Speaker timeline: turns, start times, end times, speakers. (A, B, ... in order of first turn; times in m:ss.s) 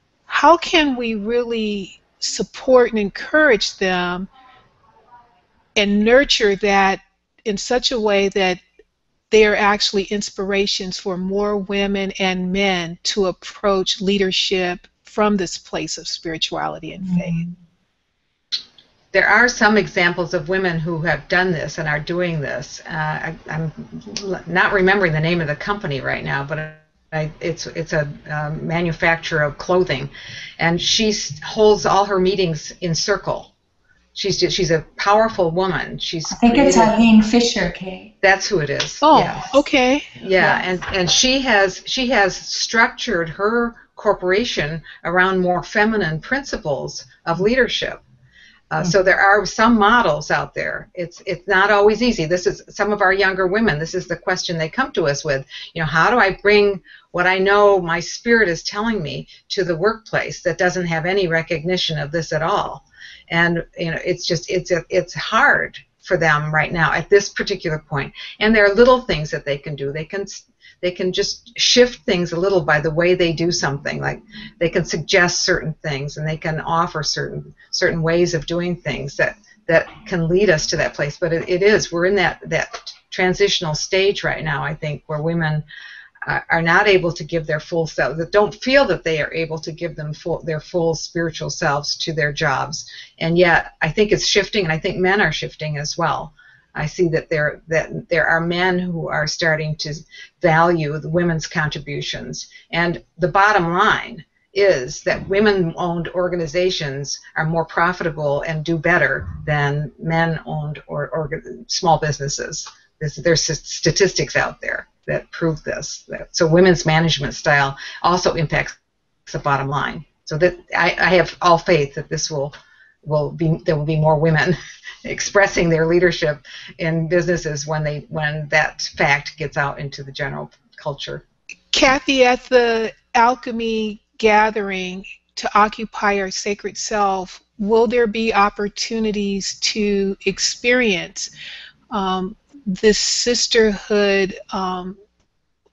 0:00.3-0:04.3 A
0:05.8-0:08.6 A
0:09.3-0:17.4 A
0:17.0-0:17.6 B
0:19.1-0:33.5 C
0:34.2-0:36.9 C
0:36.3-0:38.1 B
0:38.2-0:39.6 C
0:39.0-0:40.2 A
0:40.2-0:48.0 C
0:48.7-1:25.6 C
1:26.2-2:11.2 C
2:11.7-2:21.3 A
2:21.9-2:25.0 A